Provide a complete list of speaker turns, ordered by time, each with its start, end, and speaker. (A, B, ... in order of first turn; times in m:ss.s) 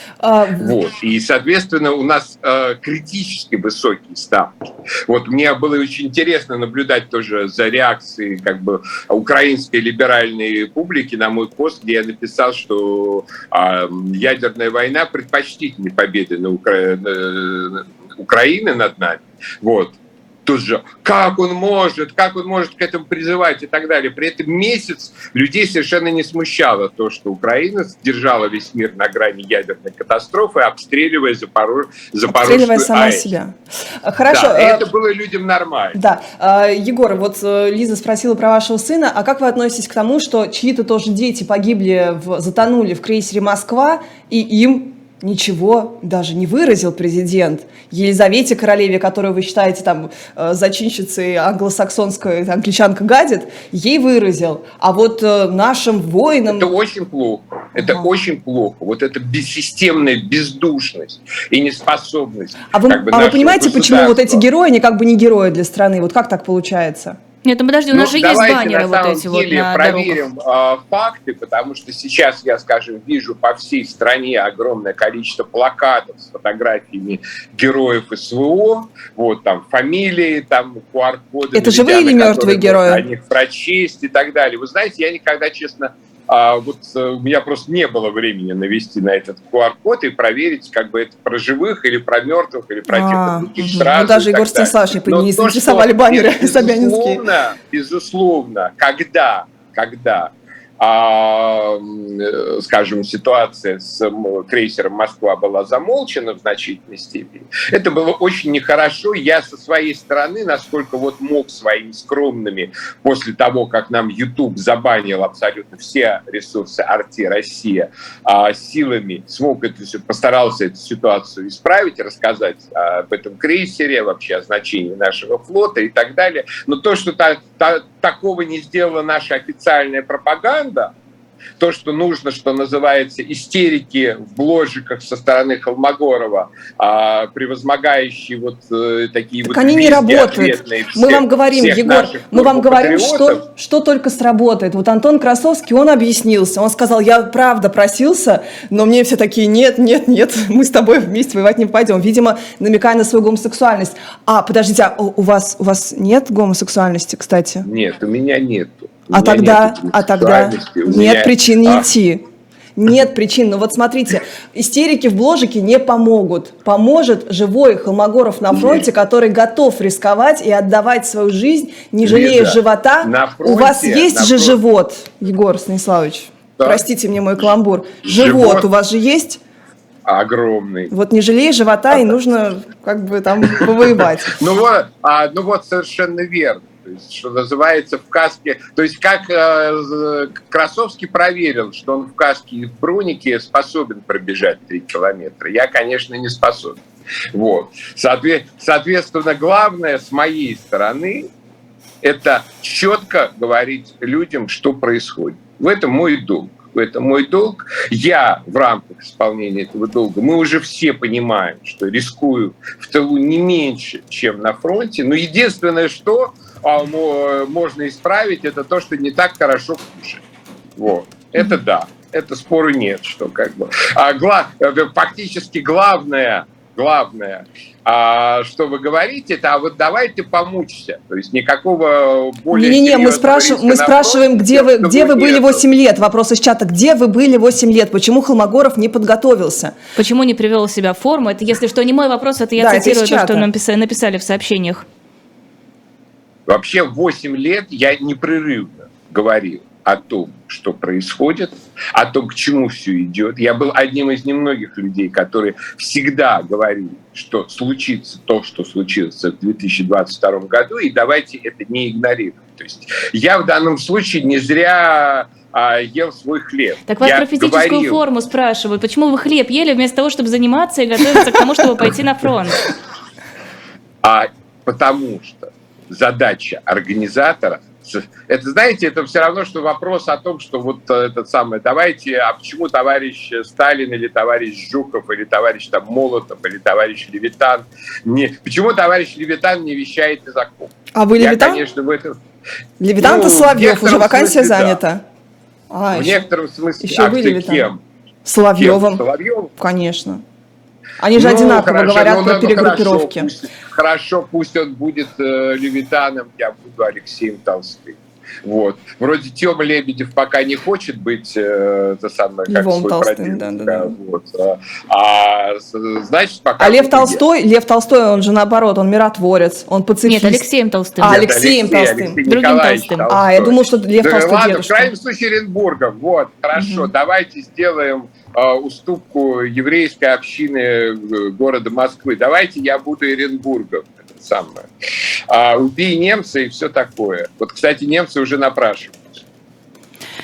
0:00.2-0:00.8 A
0:00.6-0:33.3 B
0:32.3-0:34.9 A
0:34.3-0:36.0 B
0:35.9-0:56.7 A
0:56.5-1:04.4 B
0:57.8-0:58.0 A
1:02.7-1:07.2 A
1:07.4-1:10.2 C
1:07.9-2:10.9 B
1:21.5-1:23.0 A
1:32.9-1:37.2 A
2:11.6-2:23.4 B
2:19.5-2:37.7 A
2:37.6-2:41.9 B
2:39.1-2:42.2 A
2:42.8-2:59.4 A
2:48.5-2:48.9 B
2:52.0-2:54.6 B
2:56.6-2:56.8 B
2:58.0-2:58.7 B
3:00.0-3:00.9 B
3:00.9-3:04.4 A
3:03.6-3:21.3 B
3:22.0-3:40.2 B
3:40.8-3:55.6 B
3:52.5-3:59.8 A
4:00.0-4:04.9 C
4:02.6-4:03.5 A
4:06.5-4:28.0 B
4:26.9-4:32.7 C
4:34.0-4:52.2 B
4:50.9-4:51.6 A
4:52.8-4:55.0 A
4:53.0-4:54.8 B
4:55.7-4:56.2 A
4:55.9-4:57.8 B
4:56.8-4:57.7 A
4:58.2-4:59.0 A
4:58.6-4:59.5 B
4:59.6-5:00.2 A
5:01.0-5:03.3 A
5:01.2-5:17.2 B
5:12.5-5:14.0 A
5:16.6-5:20.4 A
5:20.0-5:21.3 C
5:21.0-5:22.2 A
5:21.0-5:34.7 B
5:22.2-5:23.1 C
5:23.1-5:24.9 A
5:26.6-5:26.9 A
5:35.3-5:39.2 B